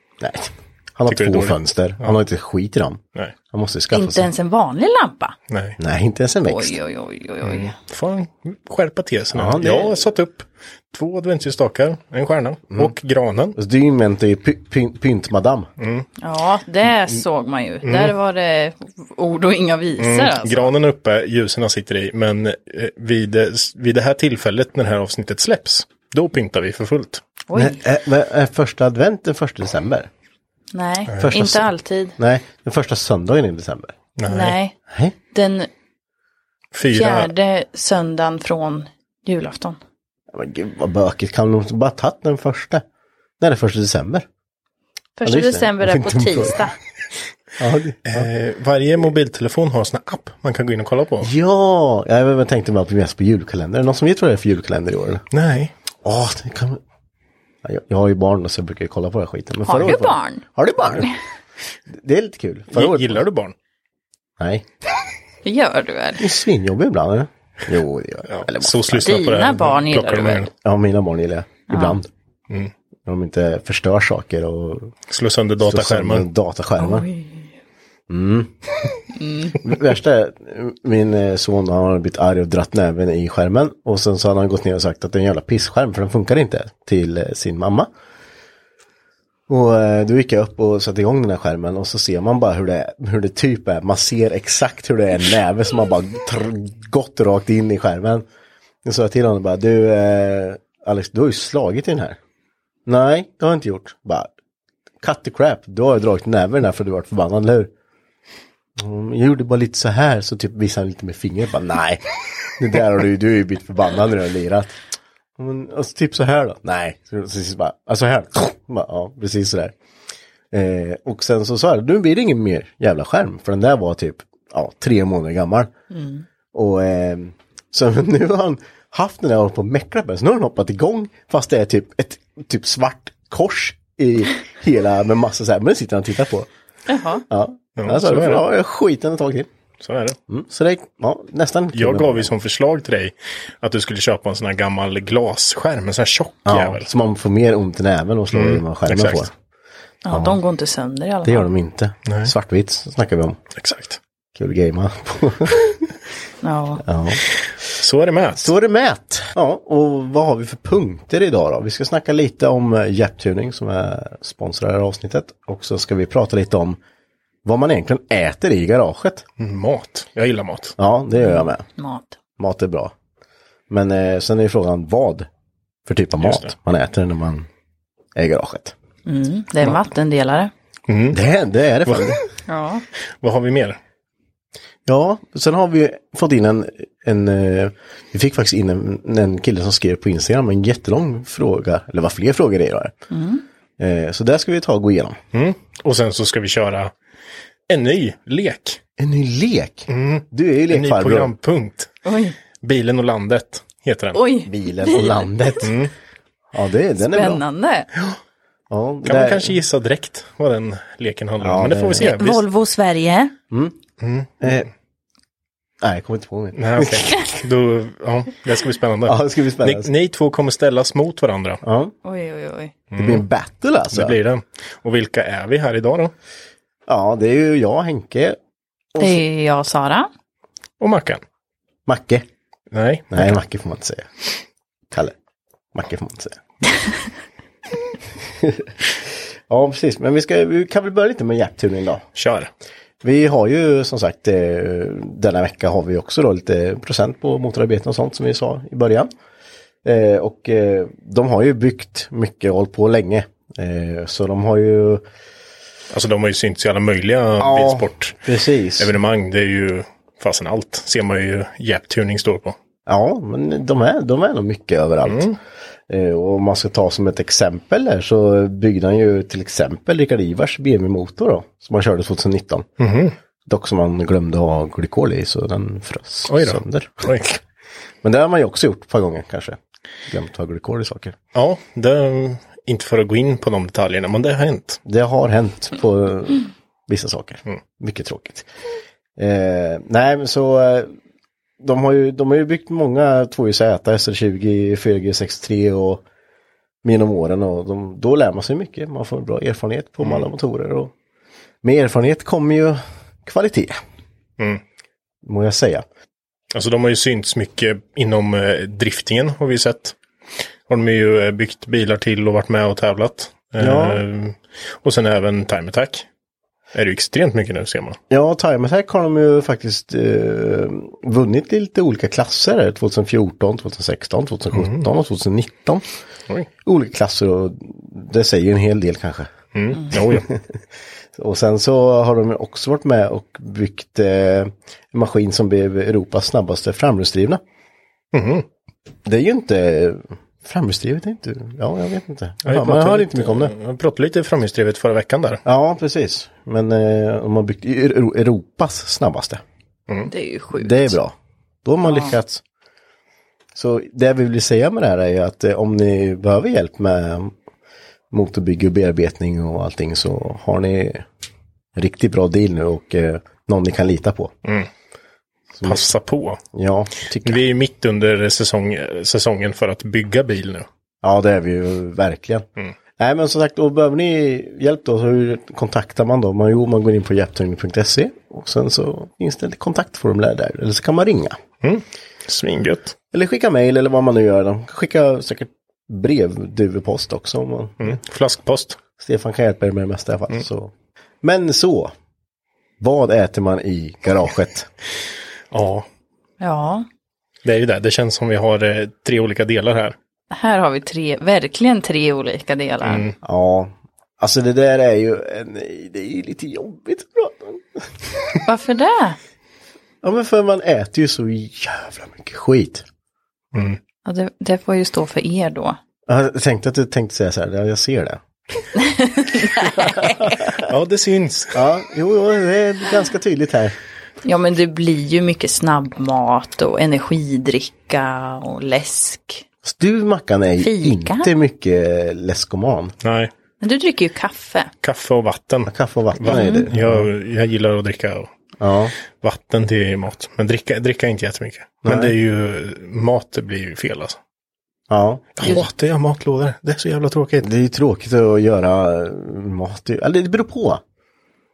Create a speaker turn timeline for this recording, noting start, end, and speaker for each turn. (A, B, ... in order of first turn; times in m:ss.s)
0:00.2-0:04.3 A
0:01.1-0:02.2 B
0:03.9-0:05.4 C
0:05.5-0:05.8 B
0:05.8-0:06.8 A
0:06.5-0:07.7 C
0:07.4-0:13.6 B
0:09.3-0:10.1 A
0:13.5-0:15.7 A
0:15.8-0:16.1 B
0:16.2-0:20.7 C
0:17.8-0:18.1 B
0:20.0-0:27.2 B
0:27.5-0:27.8 C
0:27.5-0:30.1 A
0:30.7-0:32.2 C
0:31.2-0:34.0 A
0:34.2-0:34.6 B
0:34.3-0:34.8 C
0:34.9-0:35.1 A
0:35.3-0:35.7 C
0:36.7-0:37.3 B
0:36.9-0:39.8 C
0:40.3-0:42.8 A
0:43.4-0:44.2 A
0:45.2-0:46.7 C
0:45.2-0:46.7 A
0:47.6-0:48.3 A
0:48.0-0:51.3 B
0:51.2-0:55.2 A
0:55.3-0:55.7 B
0:56.0-0:56.8 A
0:57.6-1:01.1 A
0:59.6-1:00.4 C
1:01.9-1:03.2 A
1:02.7-1:03.5 B
1:04.4-1:04.7 A
1:05.4-1:06.2 C
1:06.2-1:09.1 A
1:08.3-1:10.5 B
1:09.0-1:10.5 C
1:10.6-1:12.1 A
1:11.7-1:12.0 C
1:13.0-1:14.9 A
1:15.1-1:16.3 B
1:15.6-1:17.1 A
1:16.8-1:17.5 C
1:18.1-1:18.5 A
1:19.1-1:19.5 C
1:19.6-1:27.9 A
1:29.5-1:38.2 A
1:38.8-1:42.2 A
1:42.8-1:44.3 A
1:45.0-1:47.7 A
1:48.8-1:54.8 A
1:55.4-1:59.7 A
2:00.5-2:05.7 A
2:05.9-2:06.2 C
2:06.5-2:16.5 A
2:16.9-2:17.2 C
2:17.3-2:19.5 A
2:17.8-2:18.4 B
2:19.8-2:20.2 B
2:20.3-2:22.3 A
2:21.7-2:26.9 B
2:26.4-2:29.3 A
2:28.3-2:29.3 B
2:30.0-2:31.5 C
2:30.1-2:30.4 A
2:31.2-2:33.4 A
2:32.1-2:32.3 B
2:33.6-2:34.0 B
2:34.3-2:35.9 A
2:36.4-2:36.8 C
2:36.8-2:37.2 A
2:37.5-2:38.5 B
2:38.4-2:46.8 A
2:47.4-2:49.2 A
2:49.4-2:50.7 B
2:50.8-2:51.7 A
2:51.2-2:52.2 C
2:52.4-2:52.9 A
2:53.7-2:55.3 A
2:55.8-2:57.5 A
2:56.2-2:56.5 B
2:58.2-2:58.7 A
2:59.0-3:00.5 C
3:00.9-3:01.2 B
3:01.1-3:02.2 A
3:01.8-3:02.2 B
3:02.5-3:02.8 C
3:03.2-3:03.8 B
3:04.8-3:12.9 A
3:13.1-3:13.4 C
3:13.8-3:15.2 A
3:15.3-3:16.9 B
3:17.7-3:18.8 B
3:19.0-3:21.3 A
3:19.9-3:21.9 B
3:22.0-3:22.4 C
3:22.6-3:24.2 B
3:24.1-3:25.3 C
3:24.4-3:25.8 A
3:25.6-3:25.9 B
3:26.5-3:27.4 A
3:27.0-3:27.9 C
3:28.7-3:29.6 A
3:29.0-3:32.4 B
3:31.4-3:32.1 A
3:32.0-3:33.3 C
3:33.5-3:33.8 A
3:34.0-3:34.7 B
3:34.4-3:34.7 A
3:35.8-3:37.4 A
3:36.6-3:41.6 B
3:39.0-3:39.9 A
3:41.6-3:41.9 A
3:42.0-3:42.7 C
3:42.9-3:43.2 B
3:43.0-3:44.2 A
3:43.9-3:46.1 B
3:46.9-3:48.4 A
3:48.9-3:49.2 A
3:49.0-3:50.1 C
3:50.8-3:51.2 B
3:51.9-3:52.2 A
3:52.7-3:53.4 B
3:53.1-3:54.1 A
3:55.7-3:56.4 A
3:58.2-4:02.0 A
4:02.2-4:02.5 B
4:03.0-4:09.1 A
4:09.8-4:15.0 A
4:15.9-4:18.2 B
4:17.4-4:18.9 A
4:18.8-4:22.6 B
4:22.9-4:25.3 A
4:25.0-4:25.4 B
4:25.9-4:32.7 A
4:32.8-4:33.1 B
4:33.4-4:37.1 A
4:36.3-4:37.4 B
4:38.0-4:41.2 A
4:41.3-4:44.8 B
4:44.8-4:48.5 A
4:49.2-4:50.9 A
4:51.6-4:56.0 A
4:56.8-5:00.9 A
5:00.0-5:00.3 B
5:01.6-5:03.8 A
5:05.2-5:05.8 A
5:06.5-5:10.0 B
5:10.7-5:16.0 B
5:13.6-5:14.0 A
5:16.7-5:18.0 B
5:18.1-5:25.8 A
5:24.5-5:24.9 B
5:26.6-5:29.3 A
5:29.5-5:30.3 B
5:29.9-5:30.6 A
5:31.1-5:37.4 A
5:38.1-5:38.4 B
5:39.0-5:43.5 A
5:42.4-5:45.4 B
5:45.4-5:49.4 A
5:50.1-5:51.0 C
5:50.5-5:52.4 A
5:51.8-5:52.1 C
5:53.5-5:57.3 A
5:58.1-6:01.1 A
6:01.8-6:04.3 A
6:05.5-6:05.8 A
6:05.6-6:06.4 B
6:06.5-6:07.4 A
6:07.2-6:10.7 B
6:11.0-6:12.5 A
6:13.0-6:21.4 A
6:21.6-6:23.0 B
6:23.1-6:28.0 A
6:27.8-6:28.8 B
6:29.0-6:31.9 A
6:32.8-6:34.7 A
6:35.5-6:35.9 B
6:36.4-6:36.8 C
6:37.4-6:40.0 B
6:40.3-6:43.0 C
6:42.8-6:43.1 B
6:43.2-6:48.3 A
6:48.4-6:49.2 C
6:50.0-6:52.8 A
6:53.5-6:53.8 B
6:54.0-6:55.8 C
6:56.1-6:58.2 A
6:58.7-7:00.5 C
6:59.7-7:00.7 A
7:00.6-7:01.6 B
7:01.5-7:03.7 A
7:04.2-7:09.4 C
7:09.6-7:12.9 A
7:10.6-7:11.3 C
7:13.0-7:13.3 B
7:13.6-7:14.7 C
7:14.8-7:18.3 B
7:15.7-7:17.1 A
7:16.2-7:16.7 C
7:18.6-7:18.9 A
7:19.2-7:24.2 B
7:21.8-7:22.1 A
7:24.9-7:25.6 A
7:25.4-7:27.5 B
7:27.4-7:30.8 A